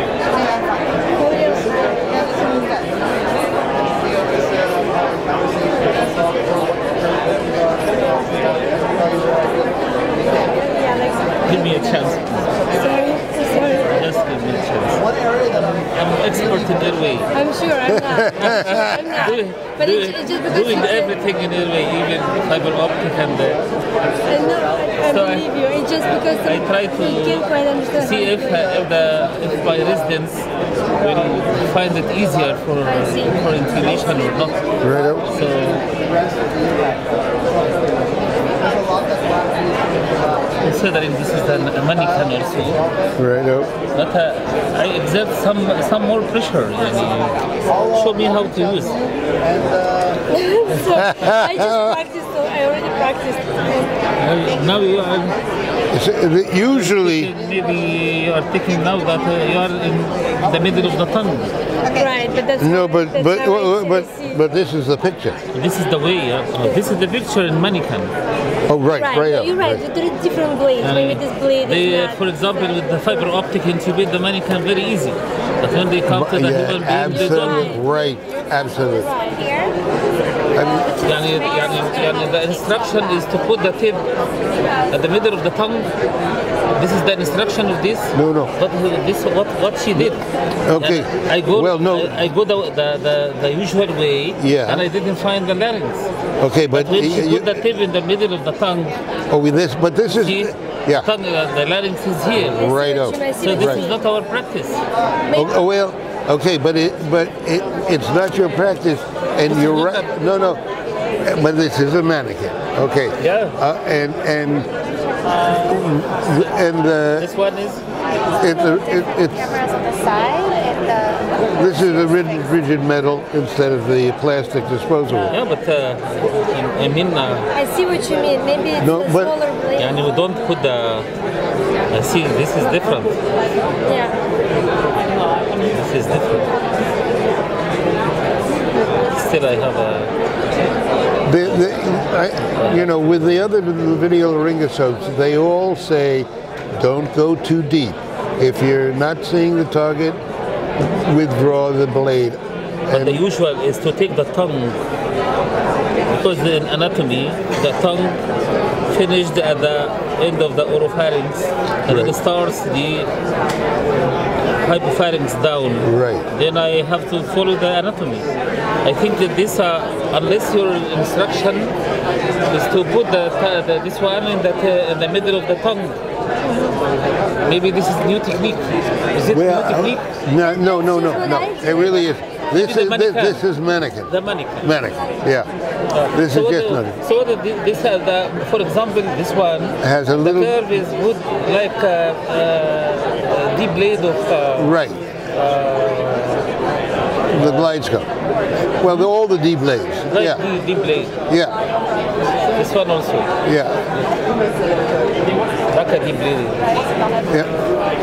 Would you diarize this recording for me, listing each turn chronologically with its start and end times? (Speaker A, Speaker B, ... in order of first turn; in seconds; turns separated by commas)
Speaker A: 1.2-2.8, Speaker A: 8.2-8.9, Speaker A: 10.7-11.8, Speaker B: 11.4-12.7, Speaker A: 12.7-14.0, Speaker B: 13.9-15.1, Speaker B: 15.7-17.3, Speaker A: 17.3-21.2, Speaker C: 18.0-18.8, Speaker B: 18.4-23.6, Speaker A: 24.3-28.6, Speaker B: 25.0-25.5, Speaker B: 26.1-34.6, Speaker A: 33.0-34.2, Speaker C: 34.8-35.3, Speaker B: 35.2-35.9, Speaker B: 40.6-42.9, Speaker C: 43.2-43.7, Speaker B: 43.9-49.0, Speaker A: 50.3-53.9, Speaker C: 50.9-52.0, Speaker B: 54.2-55.4, Speaker C: 55.9-57.3, Speaker B: 56.6-61.5, Speaker D: 61.9-62.2, Speaker A: 61.9-64.3, Speaker C: 62.6-65.4, Speaker B: 65.5-68.2, Speaker C: 68.7-69.8, Speaker A: 69.0-72.8, Speaker B: 70.8-77.7, Speaker C: 76.1-79.2, Speaker A: 77.1-77.8, Speaker A: 78.9-79.4, Speaker D: 79.2-79.8, Speaker C: 80.5-81.0, Speaker D: 80.9-83.2, Speaker B: 81.0-84.0, Speaker B: 84.9-85.9, Speaker B: 86.7-96.1, Speaker C: 88.1-88.5, Speaker C: 90.7-92.2, Speaker C: 94.4-94.9, Speaker C: 96.4-97.6, Speaker B: 96.7-99.0, Speaker C: 99.3-101.1, Speaker B: 100.1-102.8, Speaker C: 102.3-103.9, Speaker A: 102.6-104.0, Speaker B: 103.3-104.8, Speaker C: 105.3-110.6, Speaker B: 109.5-110.3, Speaker C: 111.2-114.7, Speaker B: 113.2-113.6, Speaker B: 115.3-115.8, Speaker C: 115.5-117.3, Speaker B: 117.2-117.8, Speaker D: 118.1-122.5, Speaker C: 118.4-119.5, Speaker C: 121.4-125.4, Speaker B: 125.3-127.5, Speaker A: 127.5-130.0, Speaker C: 128.8-129.4, Speaker B: 129.8-131.1, Speaker B: 131.9-133.2, Speaker A: 133.9-134.2, Speaker B: 135.5-136.6, Speaker B: 139.0-140.1, Speaker C: 141.3-150.2, Speaker B: 141.4-143.0, Speaker C: 150.8-153.2, Speaker B: 152.9-154.8, Speaker B: 156.1-158.2, Speaker B: 158.9-163.1, Speaker C: 161.9-162.2, Speaker B: 164.6-171.8, Speaker C: 165.8-166.2, Speaker B: 172.4-176.0, Speaker B: 177.4-180.1, Speaker C: 179.3-185.5, Speaker A: 180.6-182.0, Speaker B: 182.5-184.9, Speaker B: 185.9-196.5, Speaker C: 186.1-187.0, Speaker C: 189.8-190.6, Speaker C: 194.6-195.0, Speaker B: 197.3-197.8, Speaker C: 197.3-198.1, Speaker C: 198.8-200.4, Speaker B: 198.8-199.1, Speaker B: 200.1-201.1, Speaker C: 201.3-201.6, Speaker B: 202.5-203.3, Speaker C: 203.4-203.8, Speaker B: 205.5-206.8, Speaker D: 206.8-207.3